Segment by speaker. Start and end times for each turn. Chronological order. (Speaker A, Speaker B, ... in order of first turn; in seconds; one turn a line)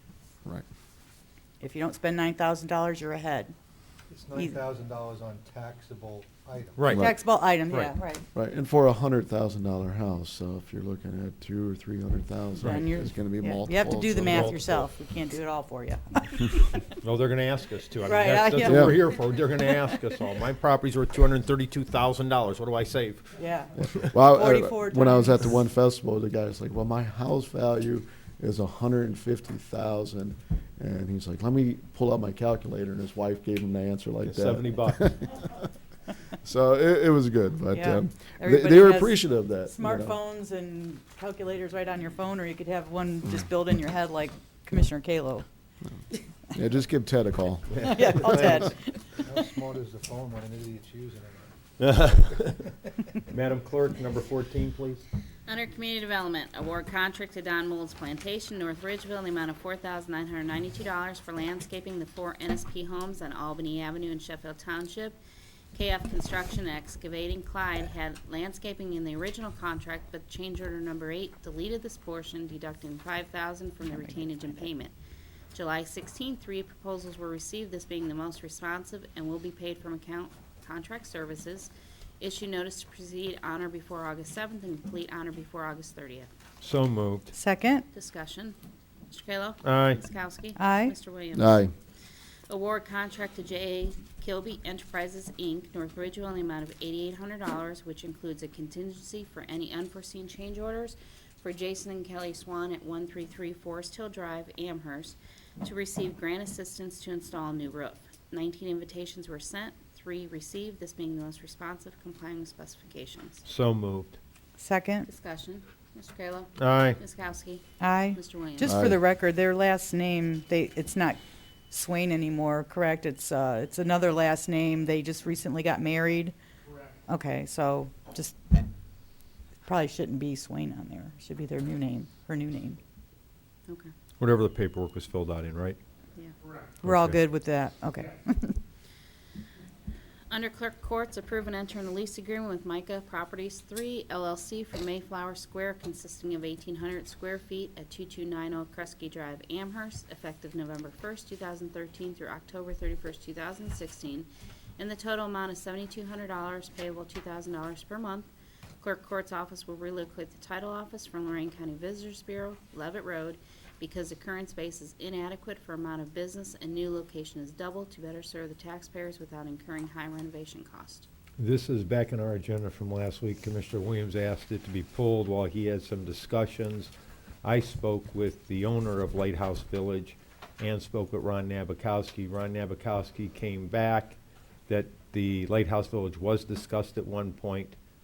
Speaker A: 1.6-3.5
Speaker B: 4.1-6.8
Speaker C: 6.8-7.2
Speaker A: 6.9-8.2
Speaker C: 7.7-7.9
Speaker D: 8.3-14.8
Speaker A: 12.6-16.8
Speaker C: 14.3-14.8
Speaker C: 16.9-23.3
Speaker A: 18.0-19.9
Speaker D: 18.6-19.0
Speaker A: 23.4-23.7
Speaker D: 23.9-35.7
Speaker A: 24.3-25.5
Speaker C: 34.3-35.1
Speaker D: 36.3-40.2
Speaker A: 37.7-45.5
Speaker D: 46.5-48.5
Speaker C: 47.8-48.6
Speaker A: 47.8-49.0
Speaker B: 49.2-51.5
Speaker C: 51.8-52.6
Speaker C: 53.2-55.0
Speaker E: 55.5-65.2
Speaker E: 65.7-74.9
Speaker E: 75.5-86.3
Speaker C: 86.6-87.3
Speaker A: 87.3-87.8
Speaker E: 87.9-88.5
Speaker E: 89.1-91.7
Speaker C: 89.6-90.0
Speaker A: 90.6-90.9
Speaker D: 91.3-91.7
Speaker E: 92.5-113.4
Speaker C: 113.5-114.2
Speaker A: 114.6-115.1
Speaker E: 115.0-118.8
Speaker C: 116.6-117.0
Speaker A: 117.8-126.3
Speaker D: 118.6-119.0
Speaker A: 127.1-128.6
Speaker A: 129.6-132.8
Speaker E: 133.7-133.9
Speaker C: 134.2-135.8
Speaker C: 136.8-137.2
Speaker A: 136.8-138.6
Speaker E: 140.3-171.1
Speaker C: 171.4-176.9
Speaker C: 177.4-187.8